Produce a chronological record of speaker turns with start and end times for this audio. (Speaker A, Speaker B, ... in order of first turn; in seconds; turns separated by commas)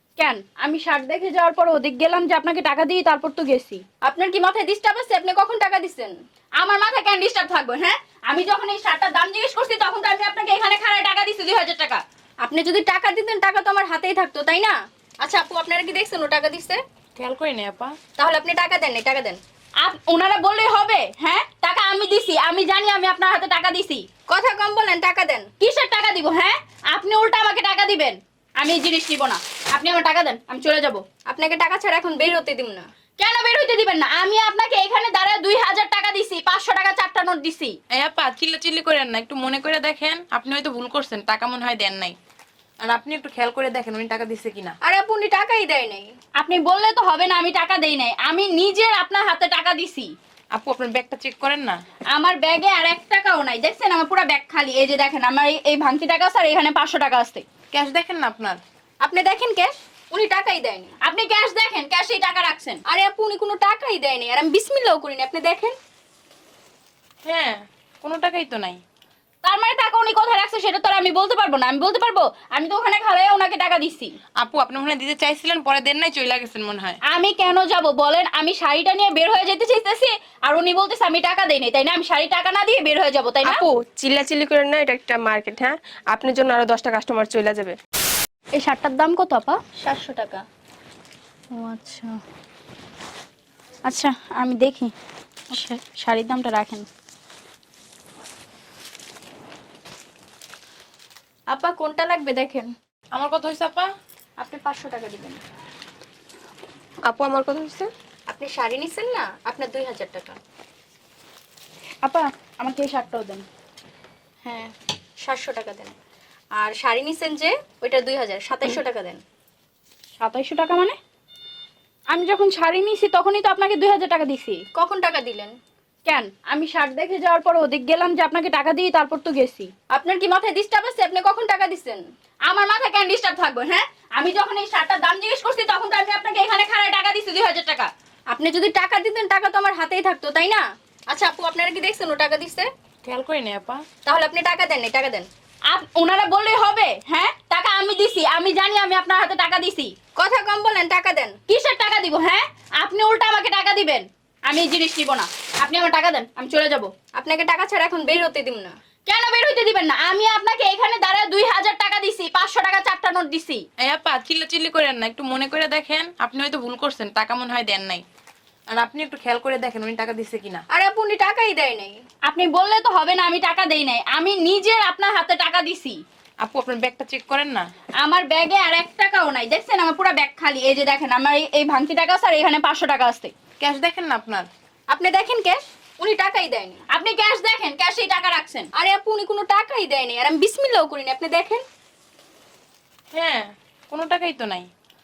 Speaker A: 0.2-3.8, Speaker B: 4.0-6.1, Speaker A: 6.6-12.0, Speaker B: 12.4-16.8, Speaker C: 17.1-17.9, Speaker B: 18.2-19.4, Speaker A: 19.8-24.1, Speaker B: 24.3-25.5, Speaker A: 25.6-31.0, Speaker B: 31.3-32.9, Speaker A: 33.2-37.8, Speaker C: 37.9-42.1, Speaker C: 42.8-44.7, Speaker B: 44.8-46.1, Speaker A: 46.4-50.1, Speaker C: 50.5-51.8, Speaker A: 52.1-57.4, Speaker C: 57.7-58.6, Speaker B: 59.0-60.9, Speaker A: 61.0-62.8, Speaker B: 62.9-65.7, Speaker C: 67.2-68.8, Speaker A: 69.4-74.1, Speaker C: 74.4-77.0, Speaker A: 77.0-83.6, Speaker D: 83.4-87.8, Speaker A: 88.5-89.6, Speaker B: 89.8-90.4, Speaker A: 91.6-92.1, Speaker A: 93.9-94.9, Speaker A: 95.5-96.8, Speaker B: 101.5-102.7, Speaker C: 103.1-103.9, Speaker B: 104.4-105.4, Speaker D: 107.0-107.9, Speaker B: 108.3-110.4, Speaker A: 112.0-113.4, Speaker B: 114.4-115.9, Speaker B: 116.5-119.2, Speaker A: 120.2-121.0, Speaker A: 122.1-124.6, Speaker B: 124.7-125.5, Speaker A: 126.0-129.7, Speaker B: 129.9-132.0, Speaker A: 132.5-137.9, Speaker B: 138.3-142.7, Speaker C: 143.0-143.8, Speaker B: 144.0-145.3, Speaker A: 145.7-149.9, Speaker B: 150.2-151.4, Speaker A: 151.4-156.9, Speaker B: 157.1-158.7, Speaker A: 159.1-163.6, Speaker C: 163.8-168.0, Speaker C: 168.7-170.6, Speaker B: 170.7-172.0, Speaker A: 172.2-176.0, Speaker C: 176.4-177.7, Speaker A: 178.0-183.3, Speaker C: 183.6-184.5, Speaker B: 184.9-186.8, Speaker A: 186.9-188.7, Speaker B: 188.7-191.6, Speaker C: 193.1-194.7